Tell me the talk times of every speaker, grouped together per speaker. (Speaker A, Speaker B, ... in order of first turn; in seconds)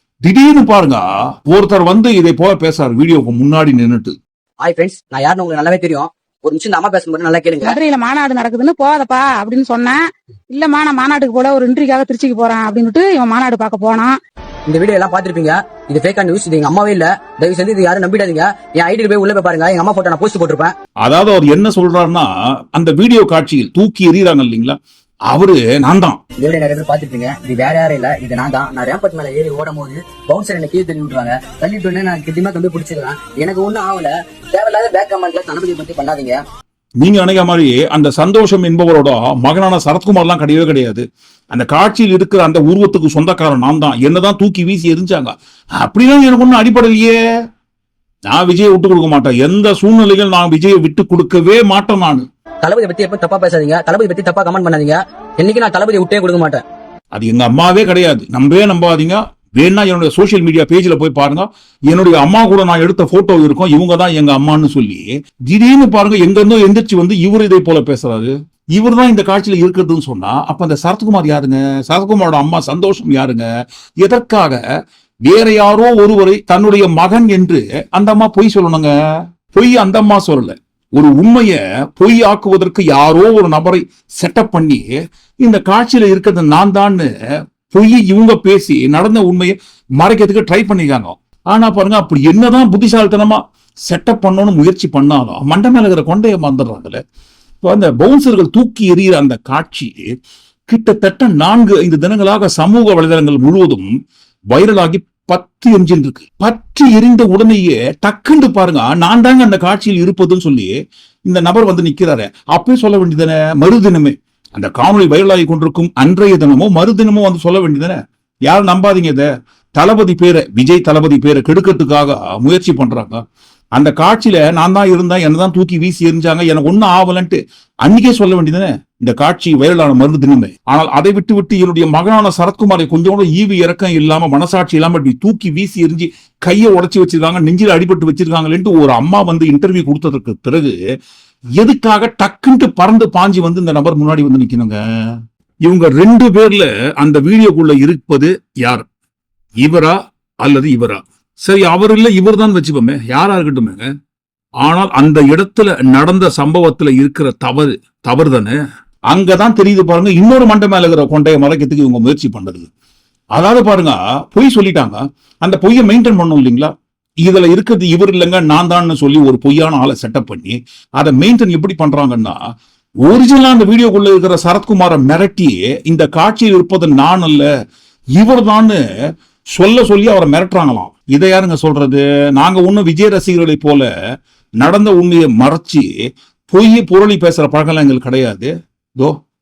Speaker A: 0.2-4.2, 21.0-24.8, 25.3-26.2, 37.0-47.2, 48.3-52.2, 57.1-73.5, 74.0-74.6, 75.3-78.9, 79.5-84.9, 85.4-87.1, 87.7-97.0, 97.6-100.0, 100.7-103.9, 104.5-110.7, 111.3-123.2, 123.8-140.8, 141.6-144.8, 145.7-148.8, 149.6-153.9, 154.6-158.6, 159.1-162.7, 163.3-166.7, 167.2-172.4, 173.1-177.5, 178.2-178.8, 179.6-183.9, 184.6-185.9, 186.5-189.2
Speaker B: 4.6-7.8, 14.7-20.7, 26.4-36.4, 52.6-56.6
Speaker C: 7.6-10.0, 10.5-14.2